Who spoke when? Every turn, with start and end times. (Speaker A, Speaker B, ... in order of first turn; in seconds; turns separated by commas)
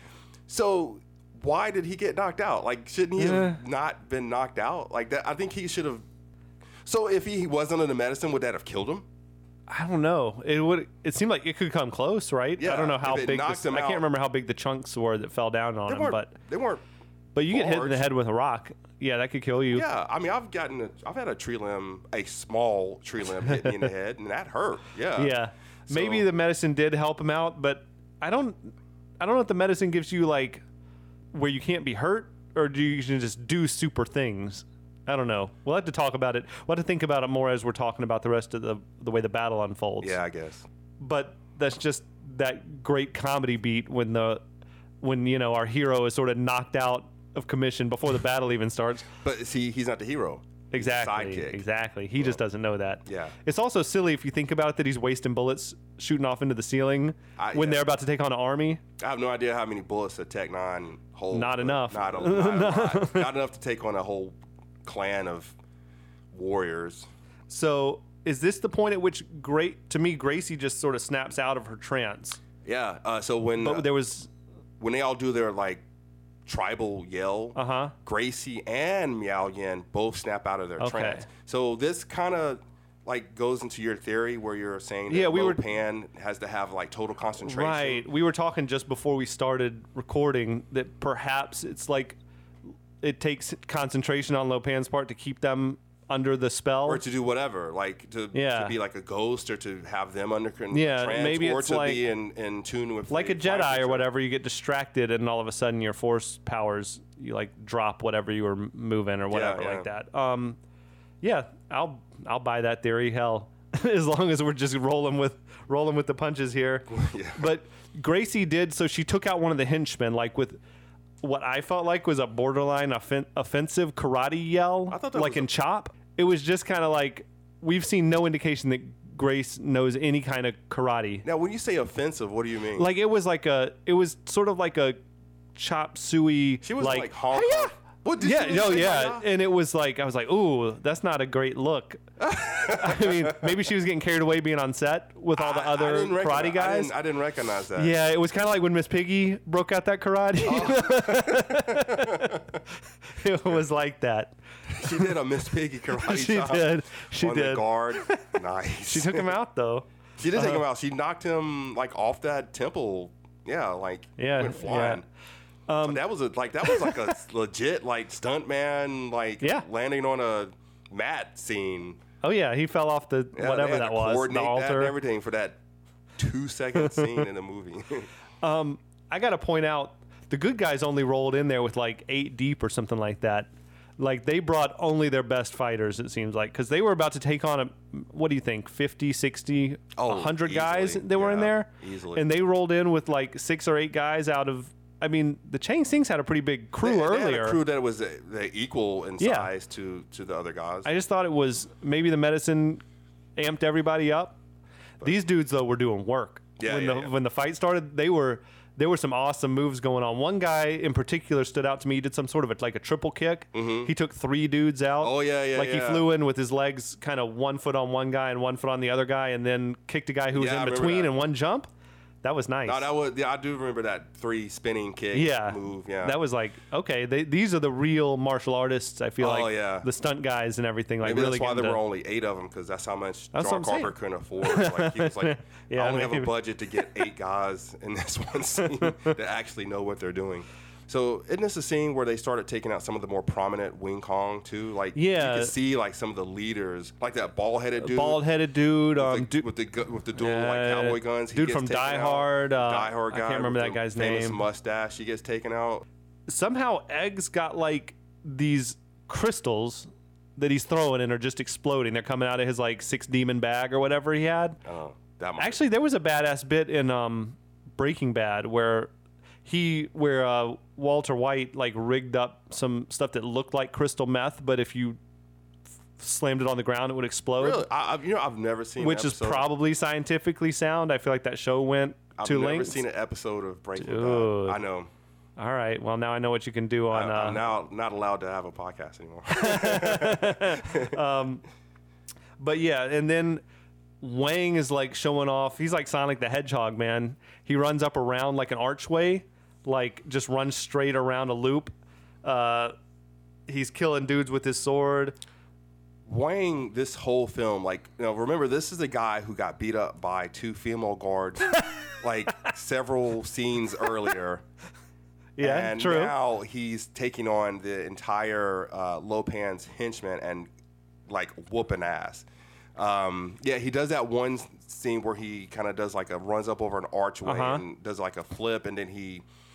Speaker A: 0.5-6.0, Speaker B: 3.2-3.6, Speaker A: 6.8-9.1, Speaker B: 9.7-16.4, Speaker A: 12.6-14.0, Speaker A: 15.9-16.8, Speaker B: 17.3-19.9, Speaker A: 17.5-18.0, Speaker A: 19.7-25.4, Speaker B: 23.4-23.9, Speaker B: 25.1-30.6, Speaker A: 25.9-26.2, Speaker B: 31.3-40.2, Speaker A: 40.0-40.7, Speaker B: 41.0-44.4, Speaker B: 45.0-49.1, Speaker A: 49.2-51.6, Speaker B: 50.7-58.8, Speaker A: 53.0-53.4, Speaker A: 57.4-57.8, Speaker A: 59.0-65.5, Speaker B: 61.3-63.3, Speaker A: 66.3-67.1, Speaker B: 67.5-72.4, Speaker A: 72.6-73.9, Speaker B: 73.6-74.3, Speaker A: 74.8-75.8, Speaker A: 76.5-88.0, Speaker B: 77.5-77.9, Speaker B: 80.8-81.2, Speaker B: 85.1-85.6, Speaker B: 87.4-92.2, Speaker B: 93.0-97.0, Speaker A: 96.8-104.1, Speaker B: 98.3-98.7, Speaker B: 100.7-102.0, Speaker B: 103.1-110.6, Speaker A: 109.3-109.9, Speaker B: 111.2-120.6, Speaker A: 116.9-117.4, Speaker B: 121.2-131.2, Speaker A: 124.9-125.5, Speaker A: 131.2-132.9, Speaker B: 132.8-135.0, Speaker B: 135.6-146.9, Speaker A: 136.6-139.3, Speaker A: 142.2-143.5, Speaker A: 145.3-147.9, Speaker B: 147.8-152.6, Speaker A: 150.4-152.6, Speaker B: 153.1-155.1, Speaker A: 154.7-159.3, Speaker B: 156.0-160.6, Speaker A: 160.2-165.0, Speaker B: 164.2-165.0, Speaker B: 165.7-166.0, Speaker A: 165.8-172.0, Speaker B: 166.6-167.1, Speaker B: 169.4-169.7, Speaker B: 172.2-174.9, Speaker A: 173.3-175.6, Speaker A: 176.2-178.1, Speaker B: 176.8-177.2, Speaker B: 178.4-197.6, Speaker A: 190.0-192.2, Speaker A: 196.8-200.9, Speaker B: 199.2-199.5, Speaker B: 200.8-202.8, Speaker B: 203.4-204.4, Speaker B: 205.0-221.7, Speaker A: 206.6-207.1, Speaker A: 213.5-213.9, Speaker A: 215.0-216.1, Speaker A: 220.3-221.1, Speaker B: 222.2-222.8, Speaker A: 222.7-226.2, Speaker B: 225.1-231.8, Speaker A: 229.2-229.9, Speaker A: 231.0-248.2, Speaker B: 233.3-236.8, Speaker B: 238.8-239.1, Speaker B: 244.9-245.5, Speaker B: 247.8-249.4, Speaker A: 249.0-255.8, Speaker B: 250.2-254.4, Speaker B: 256.3-264.6, Speaker A: 264.6-265.6, Speaker B: 265.4-268.9, Speaker B: 269.4-275.0, Speaker B: 276.0-277.6, Speaker A: 277.4-279.5, Speaker B: 278.8-282.8, Speaker A: 282.2-284.9, Speaker B: 283.8-284.6, Speaker B: 285.4-287.4, Speaker A: 286.9-291.0, Speaker B: 289.3-291.4, Speaker B: 292.4-293.4, Speaker B: 294.0-301.7, Speaker B: 302.2-302.7, Speaker B: 303.5-305.1, Speaker A: 306.1-314.4, Speaker B: 315.4-316.1, Speaker A: 315.4-320.5, Speaker A: 321.1-322.2, Speaker A: 322.8-329.2, Speaker B: 327.2-327.6